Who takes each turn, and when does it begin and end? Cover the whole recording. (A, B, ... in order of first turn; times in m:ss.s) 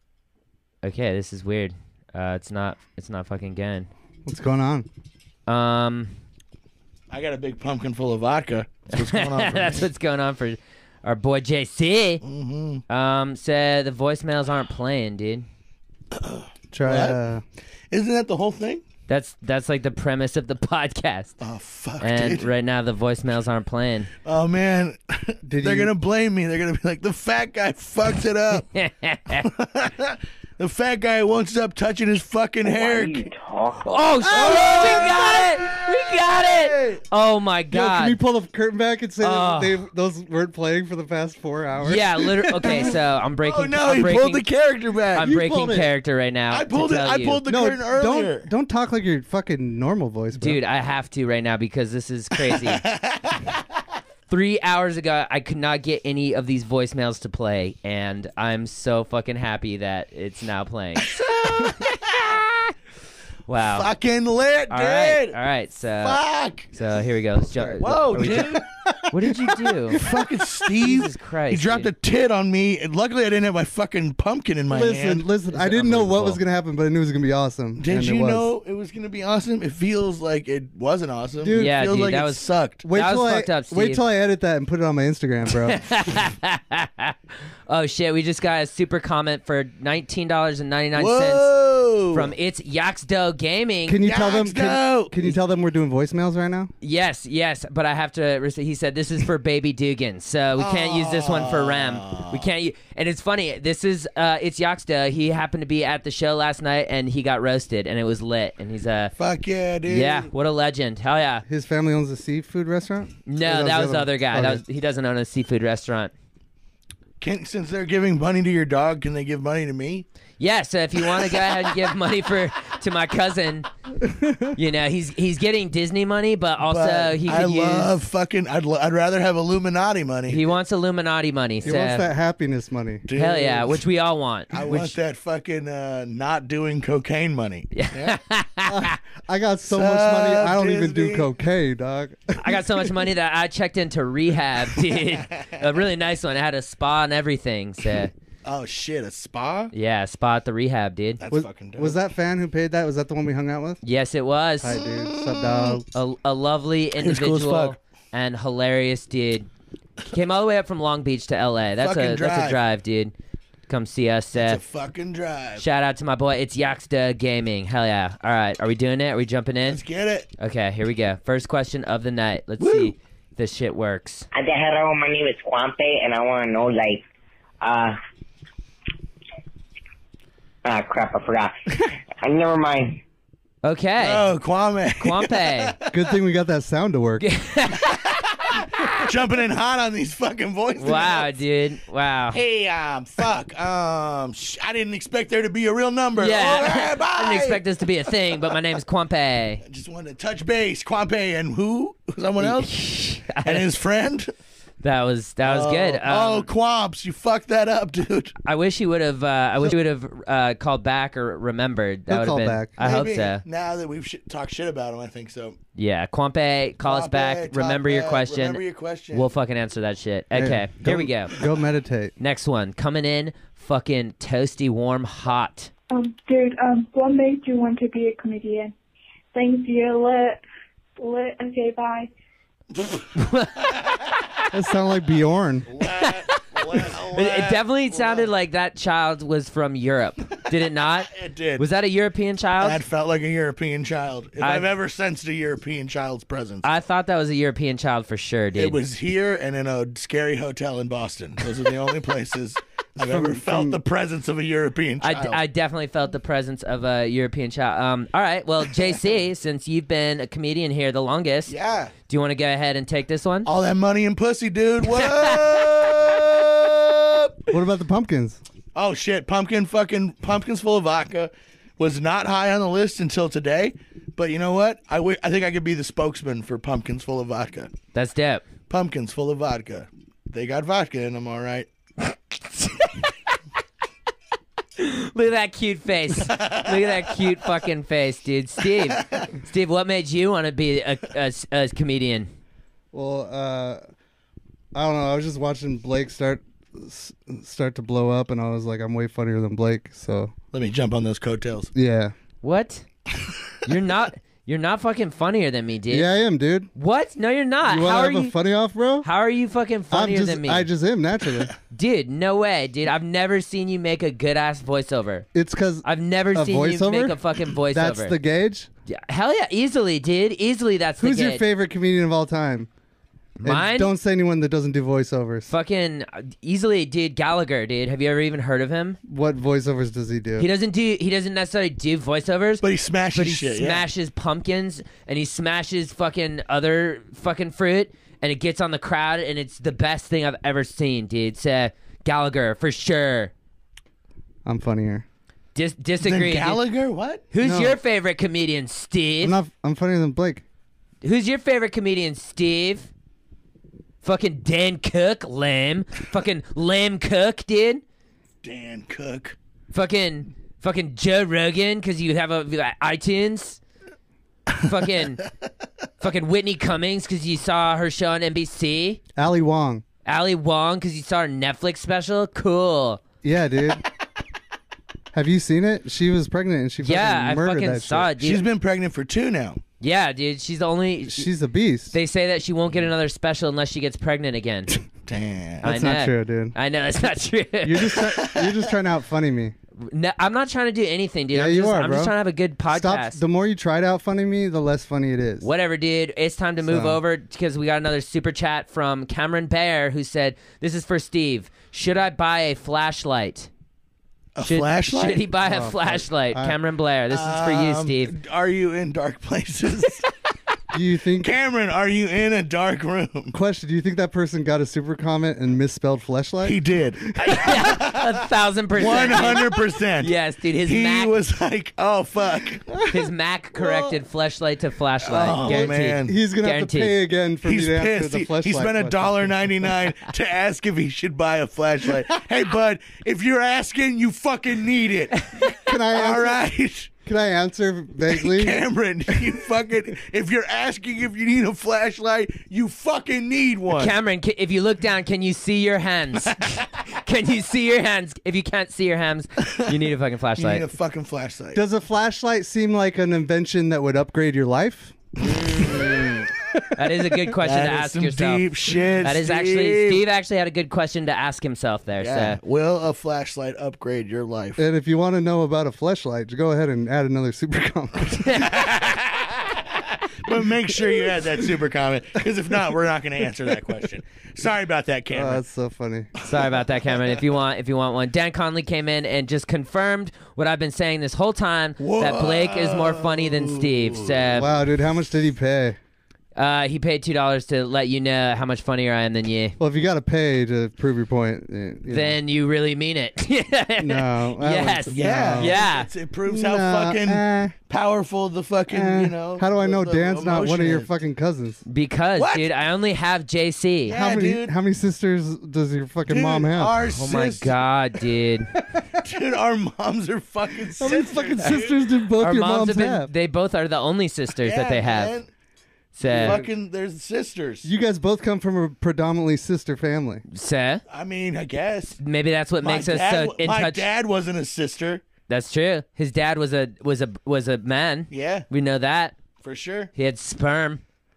0:00.8-0:03.9 A
0:04.2-0:04.9 B
0:05.5-0:06.1 A
0:07.1-0:09.9 C
0:08.9-0:12.2 A
0:12.2-0:12.8 C
0:12.9-0:15.4 A
0:16.1-0:17.2 C
0:16.7-0:17.4 B
0:17.9-0:18.8 C
0:19.1-0:21.4 A
0:21.4-0:22.5 C
0:22.0-0:24.1 A
0:24.2-0:28.6 C
0:25.4-0:25.9 B
0:28.5-0:29.5 A
0:29.4-0:33.3 C
0:32.6-0:34.6 D
0:33.8-0:38.2 A
0:34.3-0:37.0 C
0:37.7-0:42.9 B
0:39.2-0:39.8 A
0:41.8-0:44.4 A
0:42.5-0:45.3 C
0:45.2-0:47.4 A
0:45.2-0:45.9 B
0:46.5-0:48.5 C
0:47.4-0:50.6 B
0:50.4-0:52.8 A
0:52.5-0:53.6 C
0:54.3-1:01.1 A
1:01.0-1:02.4 C
1:03.5-1:03.9 A
1:03.6-1:05.4 C
1:04.7-1:06.2 A
1:06.0-1:06.7 C
1:06.7-1:10.0 A
1:07.6-1:08.6 B
1:07.8-1:08.7 C
1:09.9-1:15.2 C
1:10.8-1:11.9 A
1:14.7-1:18.5 B
1:15.5-1:16.4 A
1:17.8-1:22.8 C
1:21.4-1:21.8 B
1:21.6-1:24.0 A
1:22.8-1:25.8 B
1:25.6-1:27.2 A
1:27.7-1:31.5 A
1:30.9-1:32.3 C
1:32.1-1:34.0 A
1:33.9-1:36.7 B
1:34.0-1:35.4 C
1:36.8-1:49.1 A
1:40.6-1:42.5 C
1:49.2-1:50.3 C
1:49.9-1:51.4 A
1:51.5-1:54.6 B
1:53.3-1:56.1 A
1:57.2-2:00.1 C
2:00.4-2:03.7 A
2:01.1-2:01.7 C
2:04.0-2:04.5 B
2:04.5-2:07.9 A
2:06.6-2:10.5 C
2:10.3-2:12.1 A
2:11.6-2:13.0 B
2:13.1-2:13.8 C
2:13.2-2:14.9 A
2:14.5-2:18.2 C
2:17.7-2:19.0 A
2:18.6-2:22.6 B
2:19.7-2:21.3 C
2:22.4-2:28.1 A
2:25.1-2:25.6 C
2:28.4-2:29.7 C
2:29.7-2:31.2 A
2:31.2-2:32.0 C
2:31.3-2:33.8 B
2:33.8-2:34.8 A
2:34.6-2:35.8 B
2:34.8-2:35.8 C
2:35.9-2:39.5 A
2:37.0-2:37.8 C
2:40.1-2:43.1 A
2:41.8-2:42.6 C
2:43.7-2:44.6 A
2:44.3-2:45.6 C
2:45.6-2:49.8 A
2:49.7-2:50.3 C
2:50.4-2:54.3 A
2:52.6-2:52.9 C
2:54.3-2:57.0 D
2:57.6-2:58.0 D
3:00.6-3:03.0 D
3:03.6-3:04.3 A
3:04.0-3:05.9 C
3:05.0-3:05.7 A
3:05.9-3:07.2 B
3:07.2-3:08.2 A
3:08.4-3:11.4 C
3:10.8-3:12.4 A
3:12.3-3:17.6 C
3:16.2-3:19.6 A
3:19.6-3:22.7 C
3:22.4-3:23.7 A
3:23.4-3:24.3 C
3:24.8-3:26.5 A
3:25.4-3:28.3 C
3:28.4-3:33.4 A
3:32.1-3:32.7 B
3:32.8-3:35.6 C
3:35.8-3:38.6 A
3:36.8-3:39.3 C
3:39.1-3:41.3 A
3:40.3-3:42.1 B
3:42.2-3:45.7 A
3:45.9-3:48.7 E
3:49.3-3:50.4 E
3:51.0-3:52.1 E
3:53.2-3:53.9 A
3:54.5-3:55.7 B
3:55.7-3:58.3 C
3:55.9-4:02.8 A
4:01.1-4:01.6 C
4:02.6-4:06.6 C
4:04.4-4:04.7 A
4:06.6-4:08.8 A
4:08.6-4:15.4 C
4:13.0-4:13.8 B
4:15.0-4:21.5 A
4:21.5-4:21.9 C
4:22.1-4:23.5 A
4:23.4-4:27.5 C
4:24.9-4:25.3 A
4:27.5-4:28.4 B
4:28.7-4:37.7 C
4:37.9-4:38.4 A
4:38.7-4:41.7 C
4:44.8-4:52.3 A
4:46.3-4:47.0 C
4:48.9-4:49.3 C
4:52.9-4:53.8 B
4:54.7-5:00.3 B
5:00.5-5:01.7 C
5:01.7-5:02.1 B
5:02.4-5:02.8 A
5:03.6-5:06.1 A
5:05.9-5:06.7 B
5:06.7-5:08.3 A
5:07.6-5:09.1 B
5:09.0-5:10.7 A
5:09.9-5:11.5 B
5:11.7-5:15.2 A
5:15.3-5:18.7 B
5:15.8-5:18.2 A
5:18.9-5:21.4 A
5:21.0-5:22.7 B
5:23.4-5:23.9 A
5:23.4-5:25.5 B
5:25.5-5:29.0 A
5:29.1-5:30.5 B
5:30.4-5:43.3 A
5:32.6-5:33.8 C
5:44.4-5:45.0 B
5:45.5-5:46.6 A
5:46.0-5:47.2 C
5:47.3-5:49.4 A
5:47.4-5:47.8 B
5:49.2-5:50.4 B
5:51.0-5:52.9 A
5:54.0-5:57.8 A
5:58.4-5:59.4 C
5:59.7-6:03.6 A
6:04.6-6:05.2 A
6:06.0-6:09.0 A
6:09.2-6:09.8 B
6:10.0-6:13.0 A
6:13.2-6:13.8 B
6:15.1-6:18.1 B
6:16.8-6:18.4 A
6:18.2-6:19.6 C
6:19.8-6:21.3 A
6:21.1-6:21.9 B
6:21.9-6:24.8 A
6:25.0-6:25.7 C
6:25.6-6:26.5 B
6:25.6-6:28.0 A
6:27.6-6:29.5 B
6:28.2-6:28.6 C
6:29.8-6:33.2 A
6:31.3-6:32.2 B
6:32.7-6:35.5 B
6:35.4-6:43.5 A
6:36.6-6:37.0 B
6:44.4-6:45.2 C
6:44.4-6:48.1 A
6:45.4-6:46.6 B
6:47.1-6:50.1 C
6:50.7-6:51.3 B
6:51.2-6:53.3 C
6:53.3-6:56.6 B
6:56.4-6:58.2 C
6:57.2-6:59.5 A
6:58.8-7:00.1 C
7:00.0-7:01.1 A
7:00.6-7:02.9 C
7:02.9-7:06.9 A
7:03.6-7:03.9 C
7:05.0-7:06.1 C
7:05.4-7:09.5 B
7:07.4-7:16.9 C
7:15.6-7:16.4 B
7:17.0-7:19.3 B
7:18.1-7:23.9 C
7:23.8-7:26.4 A
7:26.3-7:26.6 C
7:26.9-7:30.6 A
7:30.4-7:31.6 C
7:31.5-7:35.0 B
7:35.2-7:38.5 A
7:37.4-7:40.0 C
7:39.0-7:42.4 A
7:42.0-7:44.6 C
7:44.6-7:48.5 B
7:48.2-7:48.5 A
7:48.3-7:55.4 C
7:50.9-7:51.2 B
7:55.1-7:56.1 B
7:56.2-7:56.6 C
7:56.2-8:04.5 A
8:01.8-8:04.4 C
8:04.3-8:05.8 B
8:06.4-8:09.6 A
8:09.6-8:12.2 B
8:11.9-8:15.9 A
8:13.8-8:15.6 B
8:14.9-8:20.9 C
8:16.3-8:17.5 B
8:18.7-8:21.6 B
8:21.7-8:24.0 A
8:22.2-8:22.5 C
8:23.9-8:24.5 C
8:23.9-8:26.8 B
8:26.1-8:27.6 C
8:26.9-8:28.5 A
8:29.0-8:31.8 C
8:30.8-8:33.1 B
8:32.2-8:35.2 A
8:34.4-8:35.3 C
8:35.9-8:36.4 A
8:36.0-8:36.5 B
8:36.0-8:37.7 C
8:37.6-8:40.2 B
8:40.3-8:40.8 A
8:40.9-8:42.0 C
8:42.0-8:43.8 A
8:42.6-8:45.0 C
8:45.3-8:49.1 A
8:48.1-8:48.5 C
8:49.4-8:49.9 C
8:50.0-8:50.8 A